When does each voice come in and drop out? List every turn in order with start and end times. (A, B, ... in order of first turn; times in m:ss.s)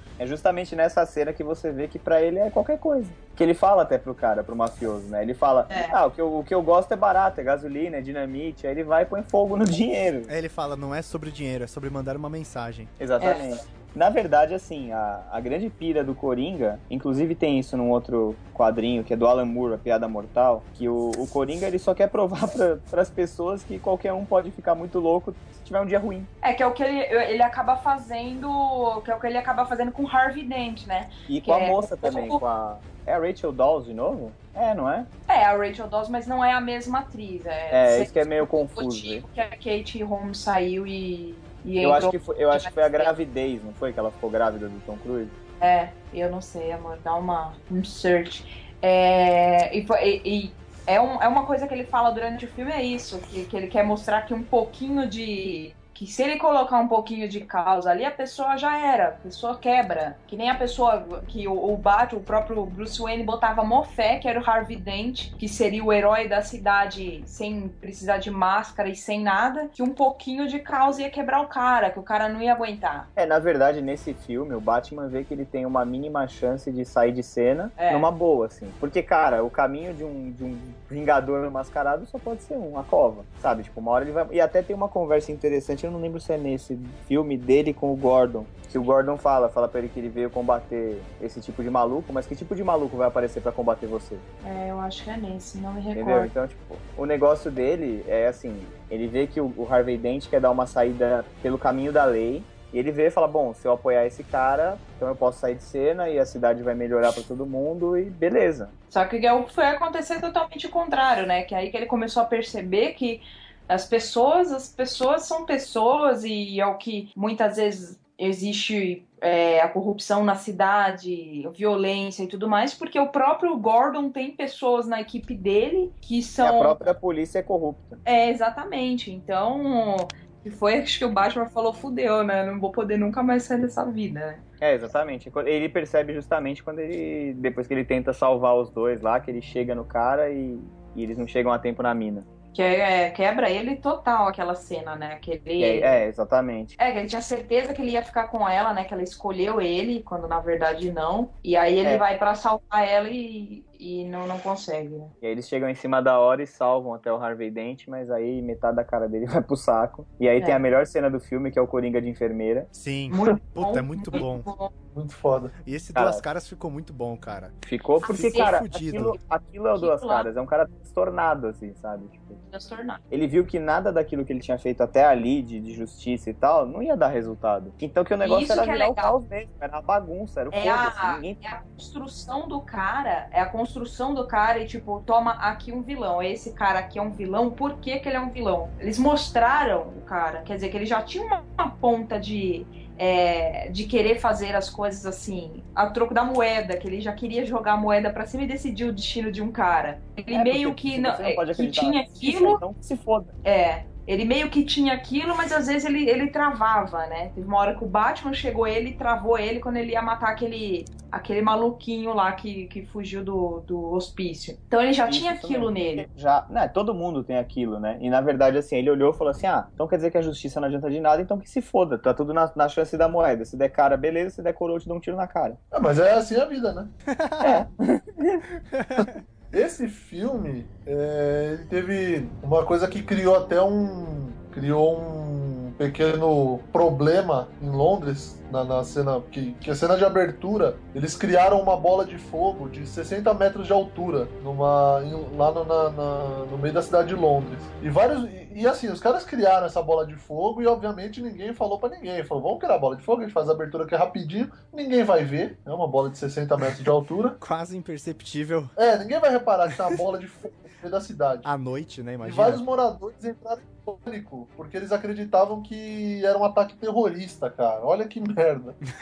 0:00.2-0:10.3 A
0:05.7-0:06.0 B
0:10.3-0:12.9 C
0:13.0-0:26.3 A
0:26.4-0:32.4 B
0:31.3-0:35.1 A
0:35.3-0:43.1 B
0:37.7-0:39.2 A
0:41.8-0:45.3 A
0:45.6-1:13.1 B
1:13.2-1:34.2 A
1:17.8-1:18.1 B
1:34.4-1:36.3 B
1:35.9-1:48.7 A
1:48.9-2:06.9 B
2:06.4-2:08.0 A
2:08.0-2:14.4 B
2:14.6-2:22.3 A
2:22.5-2:26.0 B
2:25.6-2:26.8 A
2:26.8-2:35.1 B
2:35.2-2:42.7 A
2:42.7-2:44.5 C
2:43.1-2:44.7 B
2:44.9-2:45.5 D
2:45.6-2:47.6 C
2:45.9-2:46.2 A
2:47.6-2:52.4 A
2:48.0-2:48.5 B
2:48.1-2:49.2 C
2:49.7-2:50.3 B
2:52.5-2:53.0 B
2:53.1-3:01.4 A
2:58.2-2:59.1 B
3:00.5-3:22.6 B
3:20.3-3:23.3 A
3:23.4-3:36.0 B
3:35.1-3:45.6 A
3:45.7-3:46.9 D
3:47.1-3:47.6 C
3:47.4-3:48.4 A
3:48.6-3:49.2 C
3:49.0-4:17.4 D
4:17.4-4:18.7 C
4:18.8-4:21.5 D
4:21.4-4:22.6 C
4:22.2-4:28.8 D